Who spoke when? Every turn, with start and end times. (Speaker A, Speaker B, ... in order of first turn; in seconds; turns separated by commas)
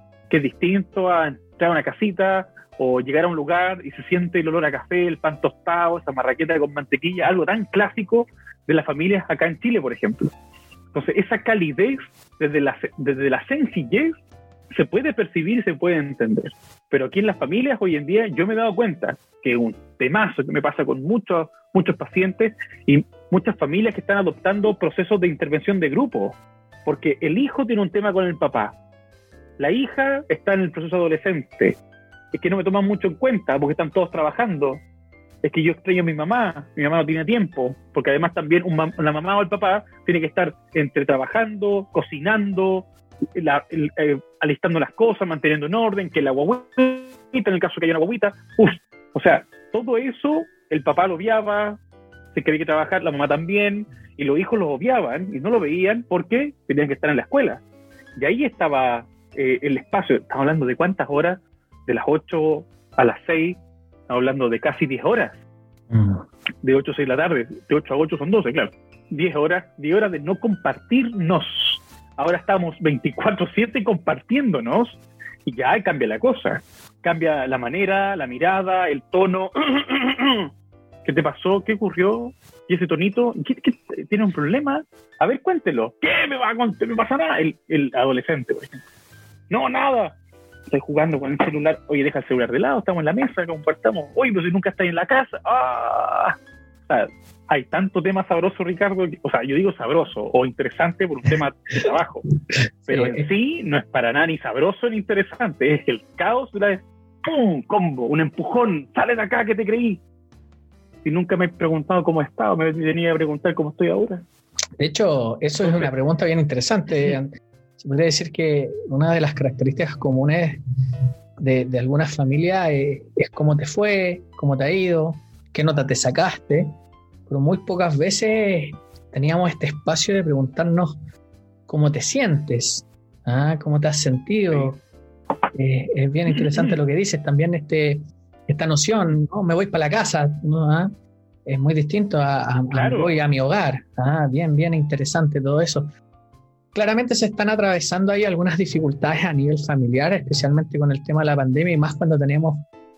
Speaker A: 0.3-10.3, Speaker A: 10.9-14.2, Speaker A: 14.7-28.8, Speaker A: 29.6-31.8, Speaker A: 32.3-34.8, Speaker A: 35.4-51.8, Speaker A: 52.3-57.6, Speaker A: 58.2-65.4, Speaker B: 65.9-66.2, Speaker A: 66.6-80.5, Speaker A: 81.0-88.8, Speaker A: 89.5-90.2, Speaker A: 90.7-96.3, Speaker A: 96.9-102.2, Speaker B: 102.8-103.3, Speaker A: 102.9-110.0, Speaker A: 111.0-114.2, Speaker B: 114.8-120.6, Speaker A: 115.6-115.9, Speaker A: 116.9-117.2, Speaker B: 121.4-126.7, Speaker B: 127.2-130.9, Speaker B: 131.7-134.8, Speaker B: 135.5-140.9, Speaker A: 136.3-136.7, Speaker B: 141.4-145.9, Speaker A: 142.7-143.2, Speaker B: 146.7-152.6